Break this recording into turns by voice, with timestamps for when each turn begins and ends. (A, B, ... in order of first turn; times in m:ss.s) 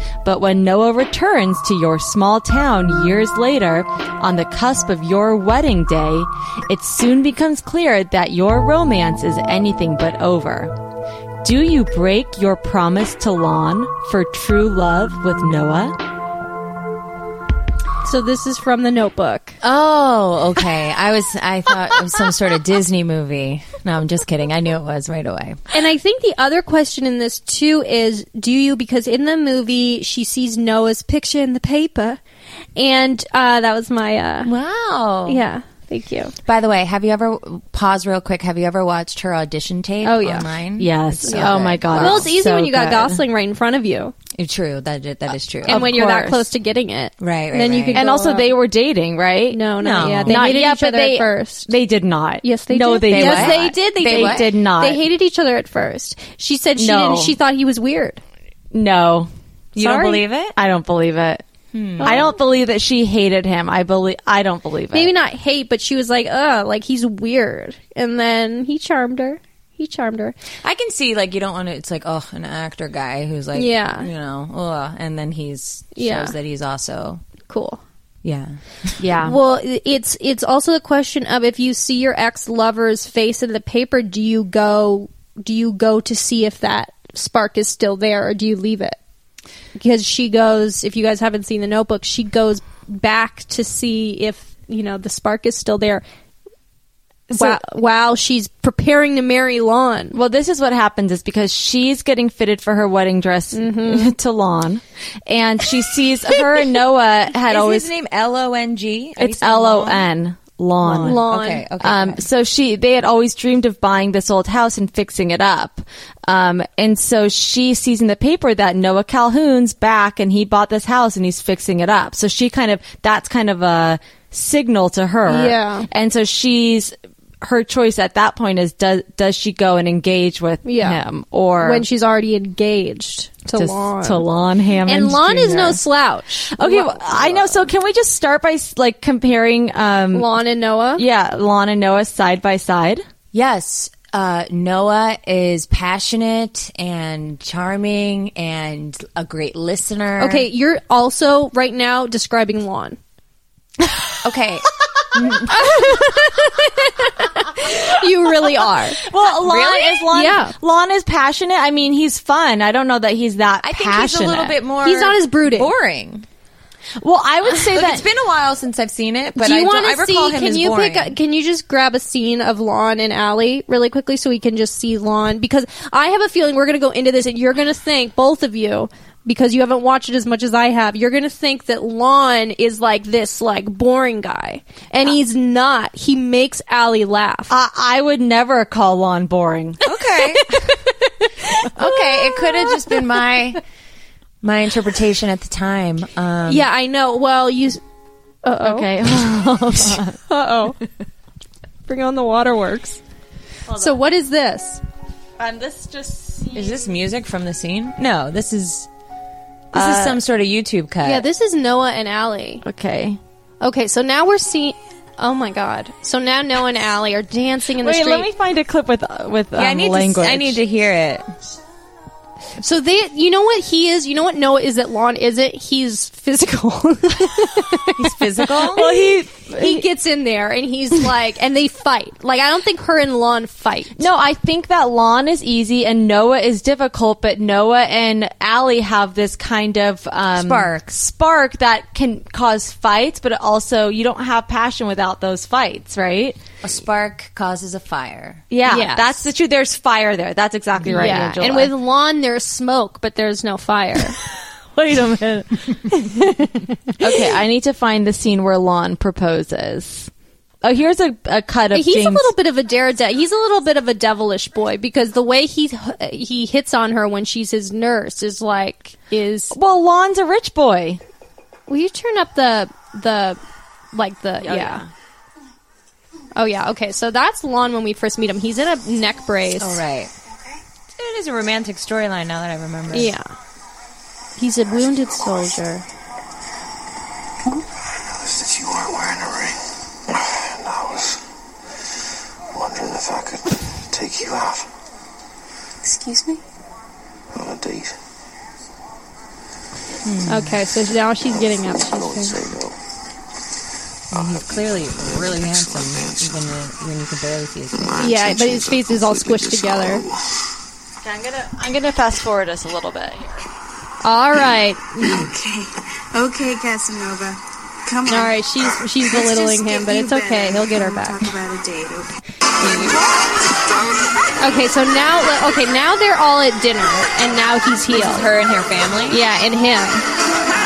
0:00.2-0:10.7 A
0:11.4-0:15.9 A
0:18.0-0:19.6 B
0:19.6-0:25.6 C
0:25.7-0:32.2 B
0:32.8-0:34.5 B
0:34.4-0:35.4 C
0:35.3-0:36.3 B
0:36.4-0:42.3 C
0:40.0-0:40.5 B
0:40.8-0:43.2 A
0:41.2-0:44.1 B
0:44.3-0:45.9 C
0:45.6-0:48.5 B
0:45.7-0:46.5 A
0:47.2-0:48.0 C
0:47.9-0:55.0 A
0:49.5-0:51.7 B
0:49.8-0:50.4 C
0:52.4-0:58.2 B
0:53.1-0:54.5 C
0:56.8-0:57.4 A
0:58.7-0:59.3 A
0:59.7-1:00.5 C
0:59.8-1:00.2 B
1:00.5-1:01.4 A
1:01.7-1:02.3 C
1:02.0-1:02.3 B
1:02.0-1:05.1 A
1:04.9-1:10.4 B
1:10.6-1:17.2 C
1:13.5-1:14.1 B
1:16.0-1:16.3 B
1:17.5-1:17.8 B
1:18.2-1:19.0 C
1:19.0-1:19.4 A
1:19.2-1:29.0 B
1:29.8-1:36.0 B
1:37.3-1:37.6 A
1:37.3-1:40.1 B
1:40.1-1:47.9 A
1:43.5-1:44.1 B
1:47.5-1:50.0 C
1:49.2-1:51.3 A
1:50.8-1:52.2 C
1:51.0-1:51.6 B
1:51.8-2:11.8 A
2:05.3-2:05.9 B
2:10.6-2:11.0 B
2:11.6-2:14.2 B
2:13.6-2:15.8 A
2:14.9-2:17.7 B
2:16.5-2:20.3 A
2:20.1-2:21.0 B
2:21.0-2:23.0 A
2:23.3-2:30.5 C
2:30.2-2:33.0 B
2:34.2-2:36.0 C
2:35.5-2:39.0 B
2:39.0-2:44.6 A
2:39.2-2:40.1 C
2:40.1-2:40.5 B
2:43.6-2:46.2 C
2:44.8-2:45.7 B
2:47.0-2:48.0 A
2:47.7-2:51.2 C
2:49.4-3:07.5 B
3:07.5-3:09.8 A
3:09.8-3:10.6 C
3:10.3-3:13.0 B
3:11.7-3:13.6 C
3:14.4-3:16.7 C
3:16.5-3:17.8 B
3:18.4-3:18.9 B
3:18.6-3:20.2 A
3:20.3-3:20.8 B
3:21.9-3:23.0 B
3:23.7-3:24.0 A
3:23.8-3:24.8 B
3:25.4-3:26.9 A
3:26.5-3:28.9 C
3:29.7-3:30.2 A
3:29.7-3:31.2 C
3:31.0-3:32.6 B
3:32.6-3:33.2 A
3:33.6-3:38.3 B
3:37.8-3:40.6 A
3:39.5-3:41.3 C
3:42.6-3:48.8 B
3:48.0-3:48.9 C
3:48.6-3:49.8 A
3:49.5-3:54.0 B
3:54.0-4:06.4 A
4:00.3-4:01.0 C
4:06.6-4:08.4 C
4:08.5-4:11.7 A
4:08.6-4:09.1 B
4:10.8-4:14.2 B
4:14.7-4:20.1 A
4:20.6-4:22.3 A
4:21.7-4:29.5 B
4:29.5-4:31.0 A
4:31.7-4:33.4 B
4:33.9-4:34.8 B
4:34.4-4:34.9 A
4:36.3-4:39.8 B
4:39.6-4:40.1 C
4:40.9-4:43.1 C
4:42.9-4:43.2 B
4:44.4-4:45.8 B
4:47.9-4:51.2 D
4:52.5-4:54.7 D
4:55.8-4:56.4 E
4:57.3-4:58.0 D
5:00.0-5:00.6 C
5:00.3-5:02.4 B
5:01.3-5:02.8 D
5:04.1-5:08.1 C
5:04.1-5:06.5 D
5:07.7-5:10.3 D
5:08.0-5:10.0 B
5:11.0-5:13.5 A
5:14.0-5:15.3 B
5:15.0-5:23.0 E
5:18.1-5:21.3 B
5:24.4-5:28.3 B
5:27.9-5:29.2 C
5:29.1-5:30.0 B